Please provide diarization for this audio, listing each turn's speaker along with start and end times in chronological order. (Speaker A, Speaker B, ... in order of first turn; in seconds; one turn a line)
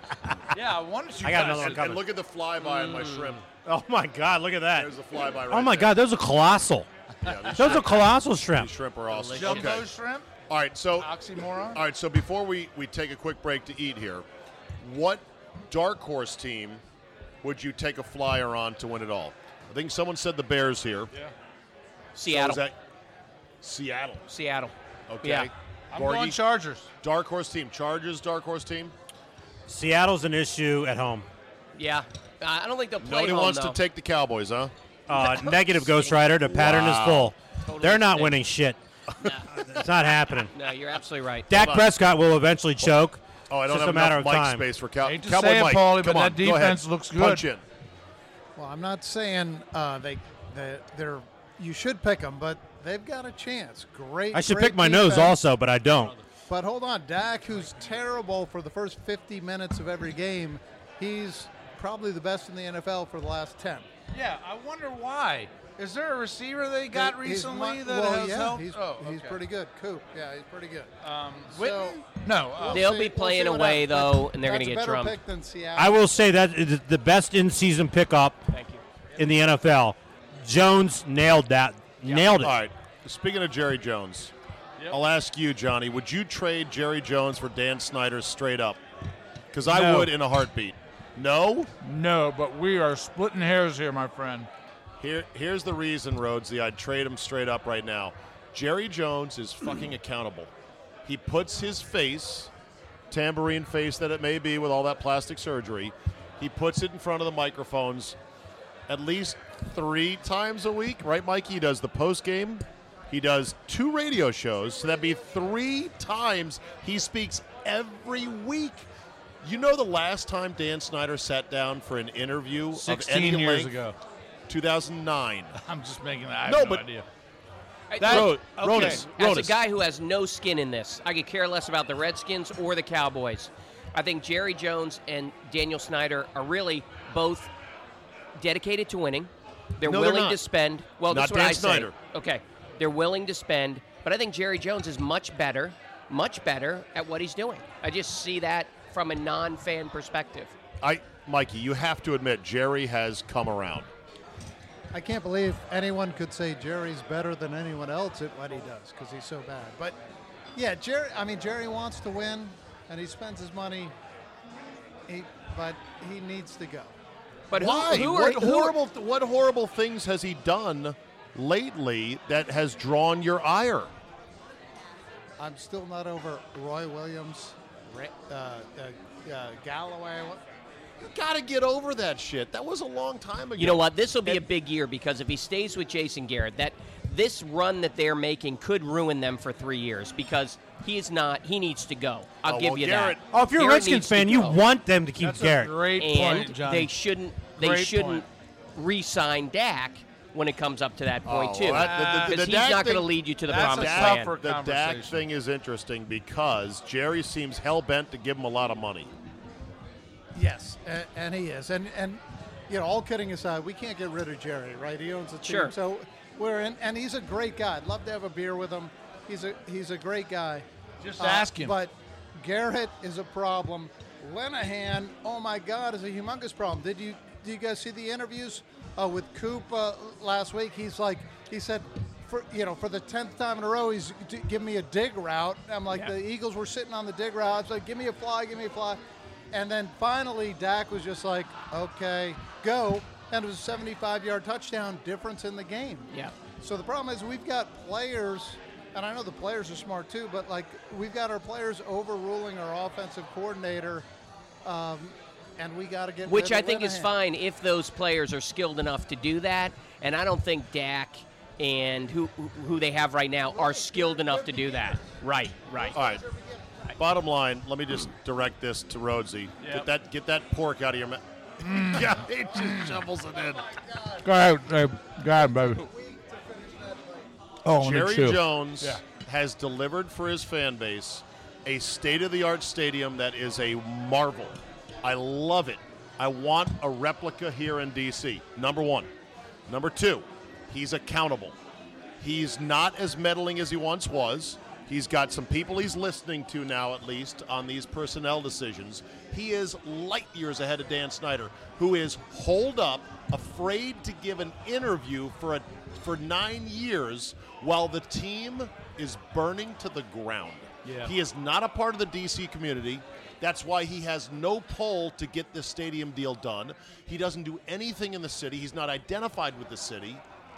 Speaker A: 0.5-1.8
Speaker B: 1.2-2.0
Speaker C: 1.3-3.4
Speaker D: 2.6-3.4
Speaker B: 3.6-4.9
Speaker C: 4.7-6.0
Speaker B: 5.5-6.9
Speaker C: 7.2-9.9
Speaker B: 7.5-8.7
Speaker D: 9.1-9.8
Speaker A: 9.3-10.3
Speaker C: 10.5-14.2
Speaker A: 11.0-11.8
Speaker C: 14.8-16.8
Speaker C: 17.4-21.1
Speaker D: 22.1-22.6
Speaker C: 22.2-22.8
Speaker C: 23.6-24.3
Speaker D: 24.3-25.5
Speaker C: 25.1-26.4
Speaker A: 25.9-26.9
Speaker C: 27.0-28.9
Speaker B: 29.7-31.3
Speaker D: 31.7-33.8
Speaker C: 33.0-34.7
Speaker B: 35.1-38.8
Speaker D: 35.1-36.2
Speaker C: 36.4-37.3
Speaker D: 37.6-38.4
Speaker B: 39.4-40.5
Speaker D: 40.5-41.5
Speaker B: 41.5-44.6
Speaker C: 41.5-41.9
Speaker C: 43.5-47.6
Speaker A: 45.0-47.5
Speaker E: 48.5-55.4
Speaker B: 54.3-56.2
Speaker E: 56.5-63.9
Speaker A: 64.1-69.4
Speaker E: 66.9-71.0
Speaker A: 71.0-72.9
Speaker E: 71.5-76.0
Speaker D: 72.7-75.2
Speaker B: 75.8-78.5
Speaker D: 78.5-78.8
Speaker B: 79.2-82.6
Speaker D: 82.0-82.4
Speaker C: 82.4-84.3
Speaker C: 84.9-88.8
Speaker C: 89.5-91.7
Speaker A: 89.7-90.1
Speaker A: 91.8-94.5
Speaker C: 95.0-100.5
Speaker C: 101.0-102.5
Speaker C: 103.1-108.2
Speaker C: 108.9-118.9
Speaker C: 119.4-123.7
Speaker A: 122.7-124.0
Speaker C: 124.5-125.5
Speaker A: 125.6-127.0
Speaker C: 126.5-126.8
Speaker D: 127.9-137.5
Speaker A: 128.0-129.1
Speaker C: 128.0-129.6
Speaker D: 138.3-150.5
Speaker C: 139.8-140.4
Speaker C: 141.1-141.9
Speaker C: 150.8-153.9
Speaker E: 154.9-160.0
Speaker E: 160.5-163.9
Speaker E: 165.1-166.9
Speaker D: 167.5-168.8
Speaker C: 167.5-173.9
Speaker E: 175.4-180.4
Speaker C: 181.0-184.4
Speaker D: 183.6-194.6
Speaker C: 192.4-193.2
Speaker B: 193.3-195.9
Speaker A: 195.2-196.9
Speaker D: 195.9-204.3
Speaker A: 197.6-198.2
Speaker C: 201.2-209.1
Speaker A: 201.7-202.5
Speaker A: 203.4-205.2
Speaker E: 210.3-220.7
Speaker D: 215.4-215.7
Speaker A: 221.0-221.8
Speaker E: 221.2-239.0
Speaker E: 239.5-254.1
Speaker E: 254.6-257.1
Speaker D: 256.2-266.0
Speaker E: 263.5-265.0
Speaker E: 265.7-266.9
Speaker C: 265.9-266.2
Speaker C: 267.0-273.7
Speaker A: 269.6-269.9
Speaker A: 271.6-272.9
Speaker E: 273.6-274.2
Speaker A: 274.2-275.9
Speaker E: 275.6-277.3
Speaker A: 277.6-279.0
Speaker C: 277.7-289.1
Speaker C: 289.7-291.6
Speaker C: 292.2-320.2
Speaker A: 310.8-311.1